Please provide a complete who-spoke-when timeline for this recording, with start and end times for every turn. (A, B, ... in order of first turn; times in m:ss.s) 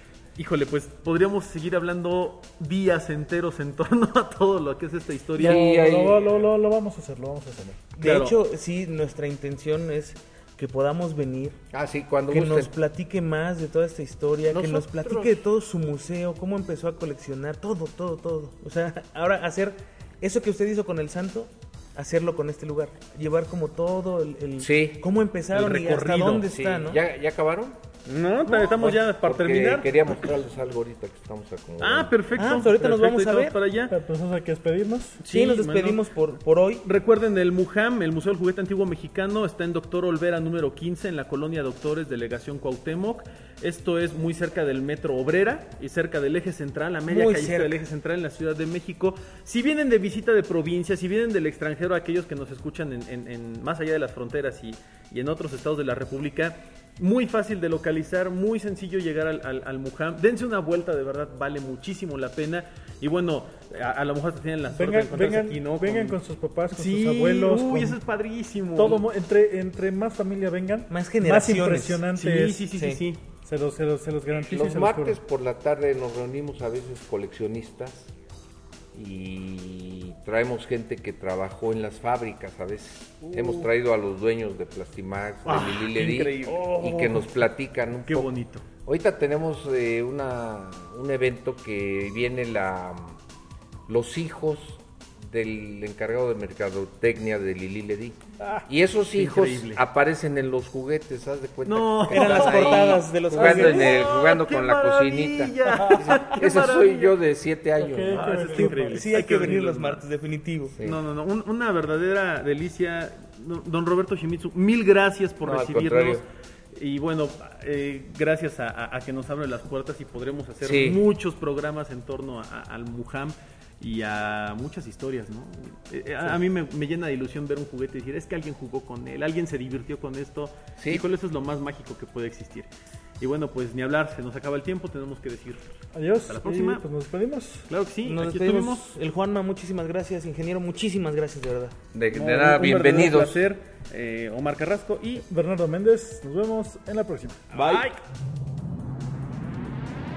0:00.4-0:05.7 A
0:05.4-0:07.8 B
0:05.4-0:06.5 C
0:08.0-0:11.6 D
0:08.0-0:08.3 A
0:11.7-0:12.7 C
0:12.3-0:27.0 D
0:14.5-0:15.4 C
0:24.6-0:25.0 C
0:25.5-0:26.5 A
0:26.5-0:27.8 C
0:28.0-0:30.2 A
0:28.4-0:32.1 C
0:31.8-0:33.9 A
0:32.3-0:33.6 D
0:33.9-0:35.2 B
0:35.2-0:36.0 A
0:35.2-0:36.8 D
0:36.8-1:06.2 A
0:47.1-0:47.8 D
1:04.7-1:08.0 B
1:06.7-1:09.0 A
1:08.8-1:12.6 B
1:10.9-1:12.0 D
1:12.2-1:13.2 A
1:12.7-1:13.0 D
1:13.4-1:15.2 B
1:14.4-1:18.1 C
1:18.9-1:28.3 C
1:23.2-1:23.7 A
1:25.4-1:27.4 A
1:28.0-1:28.6 A
1:28.8-1:33.2 C
1:33.9-1:48.3 C
1:39.1-1:39.8 A
1:41.6-1:47.2 A
1:42.1-1:44.0 D
1:45.7-1:46.2 B
1:47.8-1:49.1 B
1:48.1-1:50.0 A
1:48.5-1:50.8 D
1:50.7-1:51.0 C
1:50.8-2:12.7 A
1:55.4-1:56.2 C
2:00.6-2:01.0 C
2:10.8-2:11.0 C
2:13.2-2:15.6 A
2:15.9-2:17.7 B
2:16.2-2:16.8 A
2:17.7-2:18.9 A
2:18.0-2:21.8 D
2:21.9-2:23.4 C
2:22.1-2:25.2 A
2:25.3-2:28.0 B
2:27.5-2:28.0 A